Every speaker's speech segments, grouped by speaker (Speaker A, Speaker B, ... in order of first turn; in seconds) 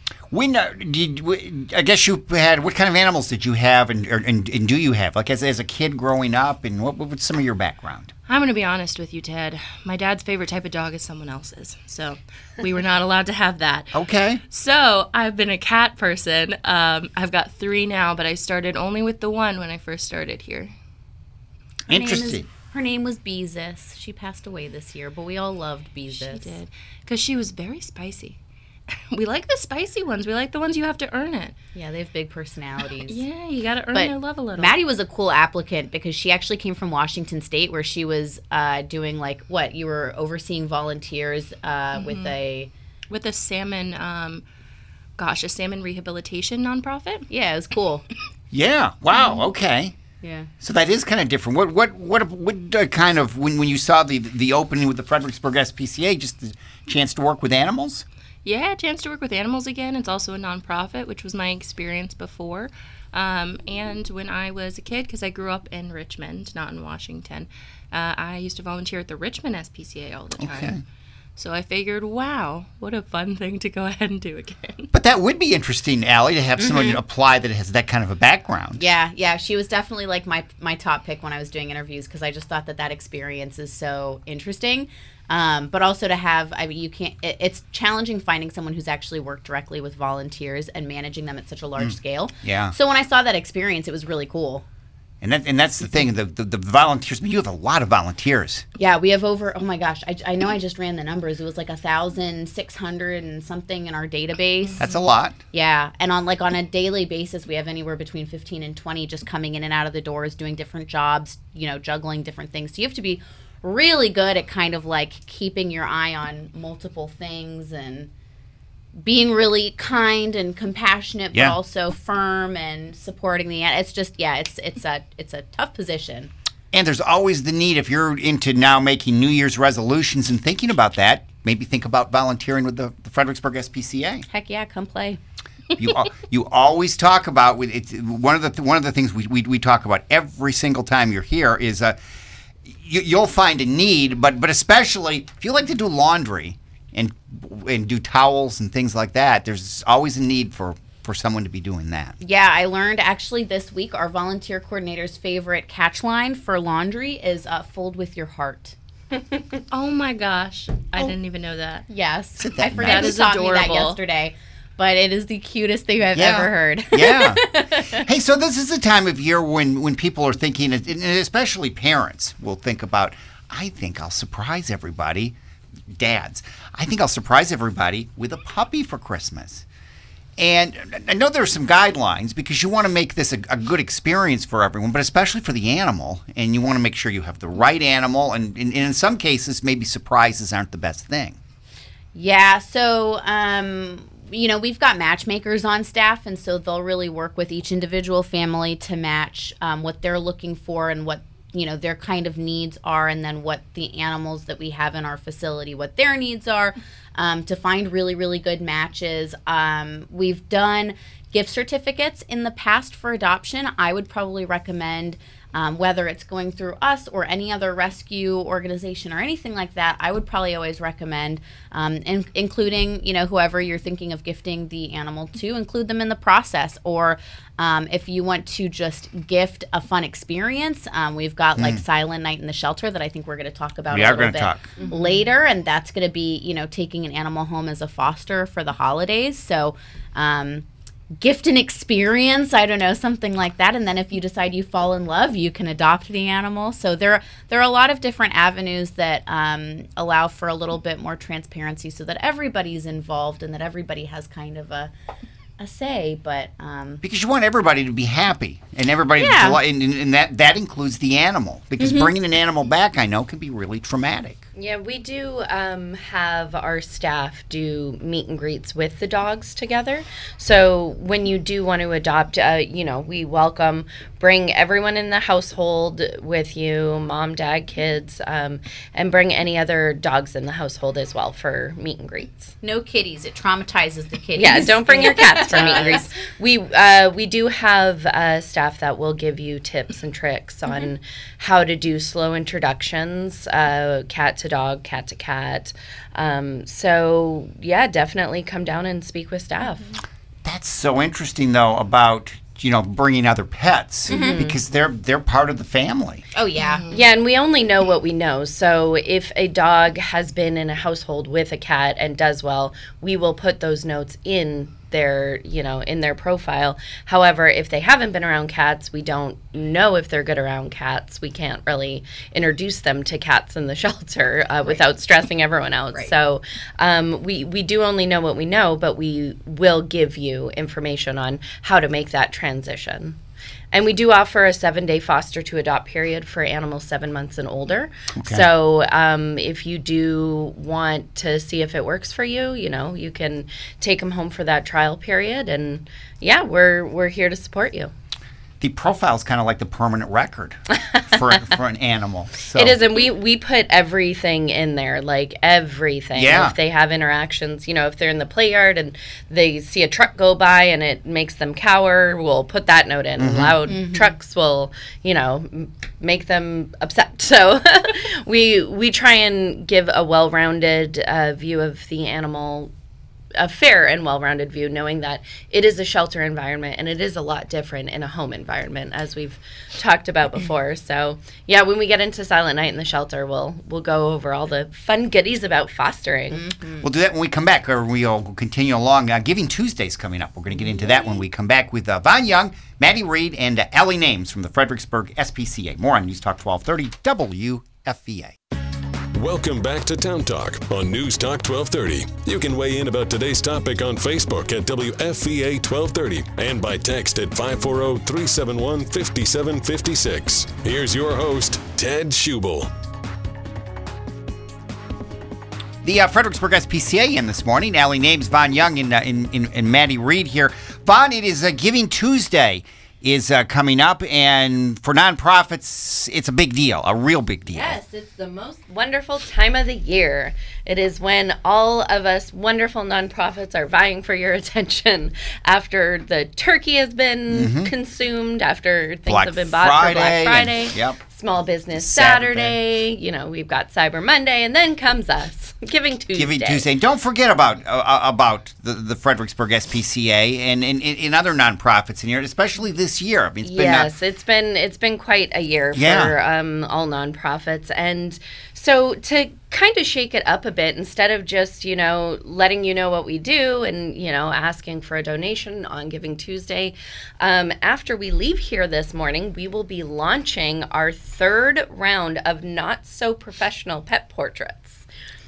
Speaker A: 0.3-8.1, 13.9-14.4, 21.9-22.5, 48.5-50.0, 50.6-58.0, 70.4-70.8, 74.9-78.8, 91.8-92.7, 95.2-98.7, 104.8-105.4, 126.7-134.3, 135.8-142.0, 142.7-152.2, 162.4-163.2, 166.2-175.4, 175.9-179.7, 180.4-191.4, 231.6-231.8, 233.9-234.7, 257.0-264.4, 300.4-306.2, 338.2-338.4, 348.6-352.8, 356.1-356.5, 363.2-363.6, 386.8-398.4, 415.8-427.8, 437.3-437.7, 439.1-441.0, 441.7-442.6, 446.1-453.9, 455.7-456.1
Speaker B: 8.3-20.7, 26.1-28.4, 28.9-31.6, 33.0-34.8, 42.0-42.4, 43.1-44.4, 45.2-47.3, 49.1-49.4, 58.5-70.8, 71.4-74.9, 104.7-105.0, 159.7-161.8, 162.7-164.0, 306.6-307.0
Speaker C: 21.9-26.6, 31.8-33.2, 33.9-42.7, 47.3-48.0, 50.2-50.5, 76.6-77.0, 78.8-94.7, 98.8-104.8, 105.5-118.1, 119.0-126.3, 134.3-135.2, 152.2-158.8, 161.9-167.9, 192.2-240.7, 241.2-254.9, 255.6-257.0, 259.2-259.6, 261.8-262.1, 282.6-286.1, 304.1-304.4, 306.3-306.9, 363.7-364.1, 386.3-386.9, 390.5-391.1
Speaker D: 234.8-235.2, 264.6-282.5, 284.4-299.9, 304.1-304.6, 306.9-333.2, 333.7-347.9, 350.8-351.5, 352.6-372.7, 373.4-386.5, 427.5-446.6, 453.4-474.9
Speaker E: 399.1-412.7